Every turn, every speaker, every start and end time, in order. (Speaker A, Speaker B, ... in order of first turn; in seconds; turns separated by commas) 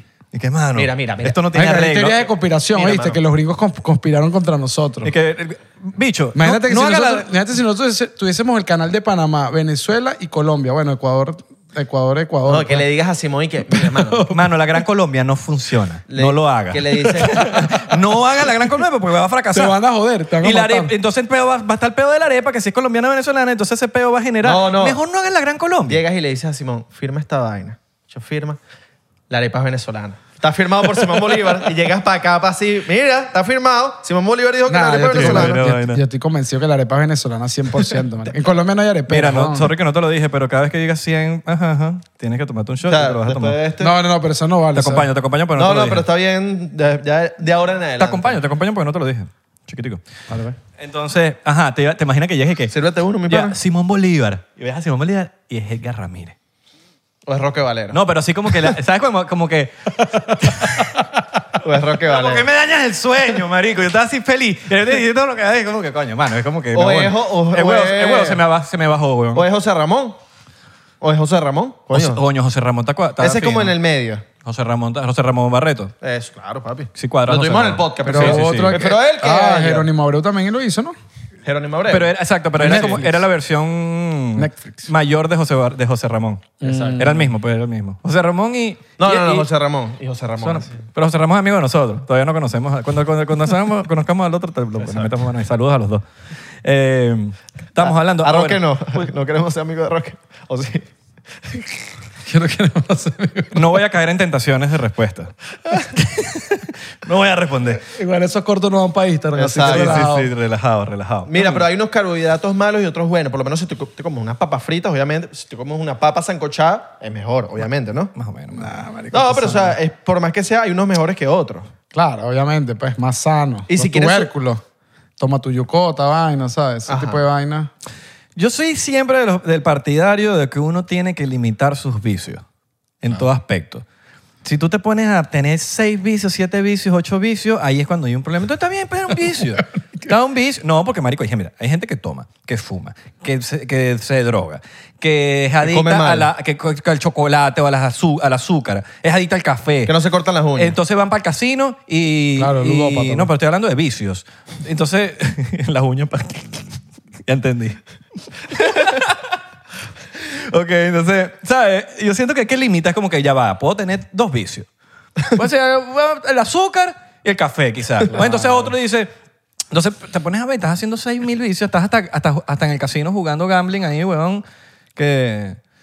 Speaker A: 0.3-2.2, Speaker B: 0.8-2.1, Speaker C: 1.5-5.1, Speaker B: 2.7-3.2, Speaker A: 5.0-7.3, Speaker C: 6.3-12.8, Speaker B: 12.5-14.2, Speaker C: 13.7-14.5, Speaker A: 14.3-19.8, Speaker B: 16.1-17.7, Speaker C: 19.5-20.9, Speaker A: 20.4-26.0, Speaker B: 24.4-25.0, Speaker B: 25.9-28.6, Speaker B: 29.3-35.6, Speaker C: 34.7-39.7, Speaker A: 35.1-36.0, Speaker A: 39.1-43.6, Speaker B: 42.9-43.9, Speaker C: 43.8-45.1, Speaker A: 44.7-46.1, Speaker B: 45.5-48.4, Speaker A: 48.0-50.0, Speaker C: 50.3-50.6, Speaker A: 50.8-52.7, Speaker B: 52.7-53.6, Speaker A: 53.3-56.4, Speaker B: 57.3-58.0, Speaker A: 57.9-61.0, Speaker B: 61.6-62.5, Speaker A: 62.0-69.4, Speaker B: 66.7-68.4, Speaker B: 69.3-70.2, Speaker B: 71.0-72.2, Speaker A: 71.9-73.7, Speaker B: 73.2-74.2, Speaker A: 74.4-75.9, Speaker B: 76.0-79.9, Speaker A: 77.0-78.9, Speaker C: 78.0-80.9, Speaker B: 81.4-82.2, Speaker A: 81.9-89.5, Speaker C: 82.5-83.3, Speaker C: 84.3-84.9, Speaker C: 86.6-87.3, Speaker B: 86.6-87.1, Speaker B: 89.0-90.8, Speaker A: 90.4-96.0, Speaker B: 94.8-95.1, Speaker A: 96.6-99.1, Speaker B: 97.8-100.9, Speaker C: 102.3-103.7, Speaker A: 103.5-107.8, Speaker C: 107.8-110.3, Speaker B: 109.3-110.1, Speaker A: 109.6-111.7, Speaker B: 111.2-118.1, Speaker A: 118.1-118.8, Speaker C: 118.5-119.8, Speaker B: 119.1-121.7, Speaker C: 121.9-124.6, Speaker B: 123.7-124.3, Speaker C: 125.2-127.7, Speaker B: 126.9-127.2, Speaker A: 128.3-132.4, Speaker A: 133.0-133.8, Speaker A: 134.4-149.9, Speaker B: 145.6-146.3, Speaker B: 149.8-150.7, Speaker A: 150.6-156.7, Speaker C: 152.4-153.3, Speaker A: 157.3-157.8, Speaker A: 158.5-159.4, Speaker A: 160.1-164.7, Speaker A: 165.3-169.1, Speaker C: 168.1-168.7, Speaker A: 169.7-174.4, Speaker A: 174.9-175.6